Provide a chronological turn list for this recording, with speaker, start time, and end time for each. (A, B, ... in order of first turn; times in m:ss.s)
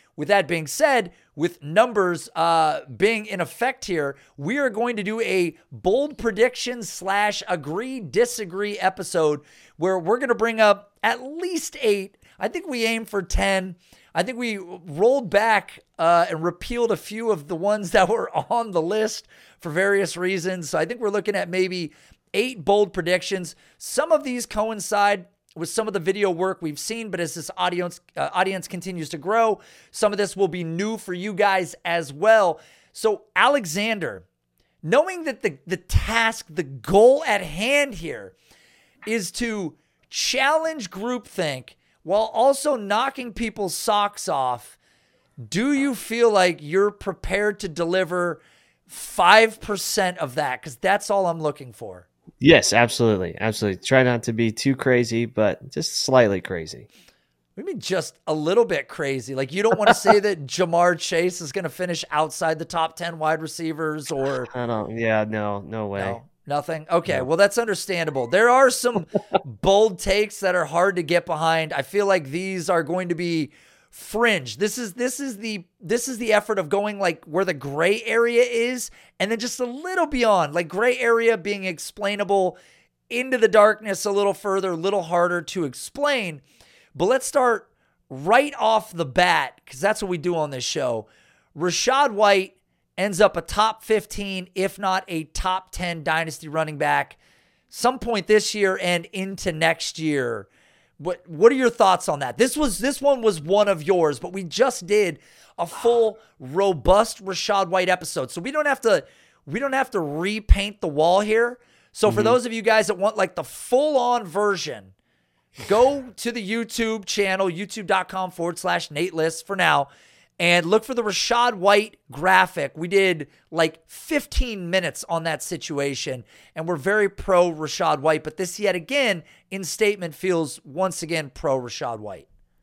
0:00.2-0:34.2 A
0:34.8-0:38.3 A
0:39.0-0:44.8 A
0:45.4-0:52.0 A
0:52.4-0:56.9 B
0:57.6-1:04.5 A
1:04.5-1:06.2 B
1:06.0-1:22.6 A
1:23.1-1:26.4 A
1:26.9-1:37.2 A
1:37.7-1:40.5 A
1:41.0-1:54.9 A
1:52.1-1:52.4 B
1:55.6-1:59.9 A
2:00.4-2:12.2 A